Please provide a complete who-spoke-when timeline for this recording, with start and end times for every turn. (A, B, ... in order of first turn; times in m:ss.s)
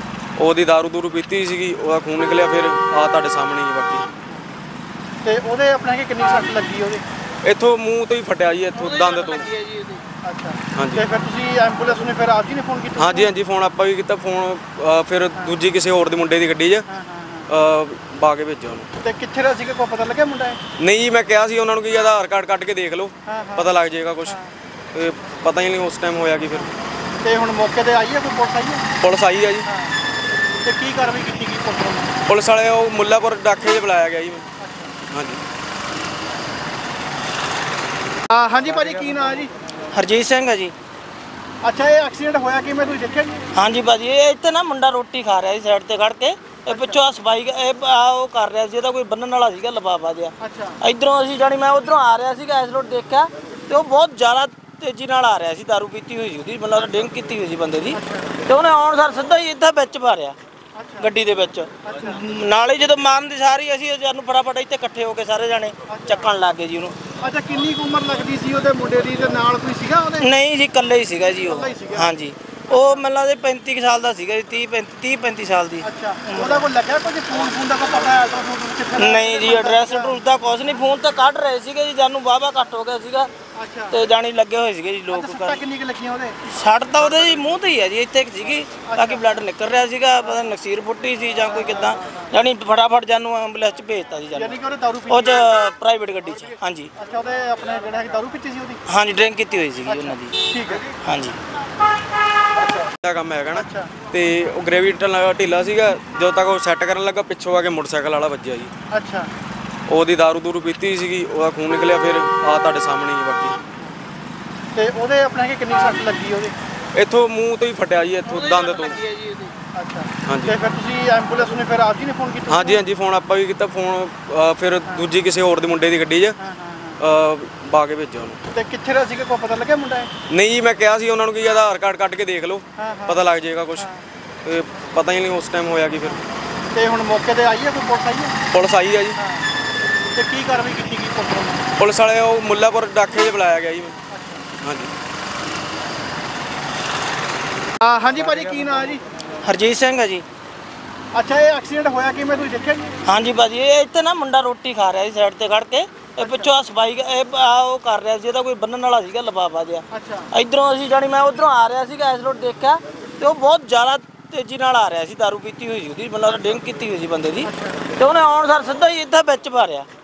0:00.4-0:04.1 A
0:05.2-0:07.0 B
0:07.4-0:09.6 A
0:10.2-0:13.3 B
0:10.7-0:11.0 A
0:13.0-0:16.9 A
0:16.9-0:17.5 B
0:17.5-0:18.9 A
0:19.0-0:20.6 B
0:20.8-0:24.4 A
0:23.2-0:23.7 B
0:24.2-0:24.5 B
0:24.9-0:26.7 A
0:27.2-0:28.9 B
0:29.0-0:29.7 A
0:29.7-0:30.0 B
0:30.6-0:32.1 B
0:32.2-0:34.4 A
0:34.6-0:35.0 B
0:35.1-0:35.4 A
0:38.3-0:39.5 B
0:39.9-0:40.7 C
0:41.6-0:43.4 B
0:43.5-1:00.4 C
0:46.7-0:47.0 B
0:50.4-0:50.8 B
0:57.9-0:58.4 B
1:00.7-1:01.1 B
1:01.0-1:07.0 C
1:01.8-1:02.2 B
1:05.9-1:06.2 B
1:07.2-1:10.3 B
1:10.2-1:16.6 C
1:11.4-1:12.1 B
1:12.7-1:13.0 B
1:15.8-1:20.2 B
1:19.0-1:23.3 C
1:23.5-1:24.0 B
1:23.9-1:25.6 C
1:25.1-1:26.4 B
1:26.4-1:34.6 C
1:28.8-1:29.4 B
1:34.3-1:35.5 B
1:35.1-1:36.9 C
1:37.0-1:38.8 B
1:38.9-1:40.3 C
1:39.8-1:40.9 B
1:40.9-1:41.4 C
1:43.0-1:48.7 A
1:43.5-1:43.9 B
1:48.9-1:49.3 B
1:49.9-1:53.6 A
1:54.7-1:56.6 B
1:56.9-1:59.1 A
1:58.8-1:59.1 B
1:59.7-2:02.8 B
2:00.2-2:00.5 A
2:02.5-2:06.4 A
2:06.4-2:07.0 B
2:07.0-2:08.4 A
2:08.5-2:10.1 B
2:10.3-2:13.9 A
2:12.8-2:13.2 B
2:13.8-2:14.0 B
2:14.4-2:16.2 A
2:16.7-2:18.4 B
2:18.5-2:19.2 A
2:19.2-2:19.5 B
2:20.1-2:21.6 B
2:21.8-2:24.0 A
2:24.1-2:24.4 B
2:24.6-2:24.9 A
2:27.8-2:29.0 B
2:29.4-2:30.2 C
2:31.1-2:33.0 B
2:33.0-2:49.9 C
2:36.2-2:36.5 B
2:39.9-2:40.3 B
2:47.4-2:47.9 B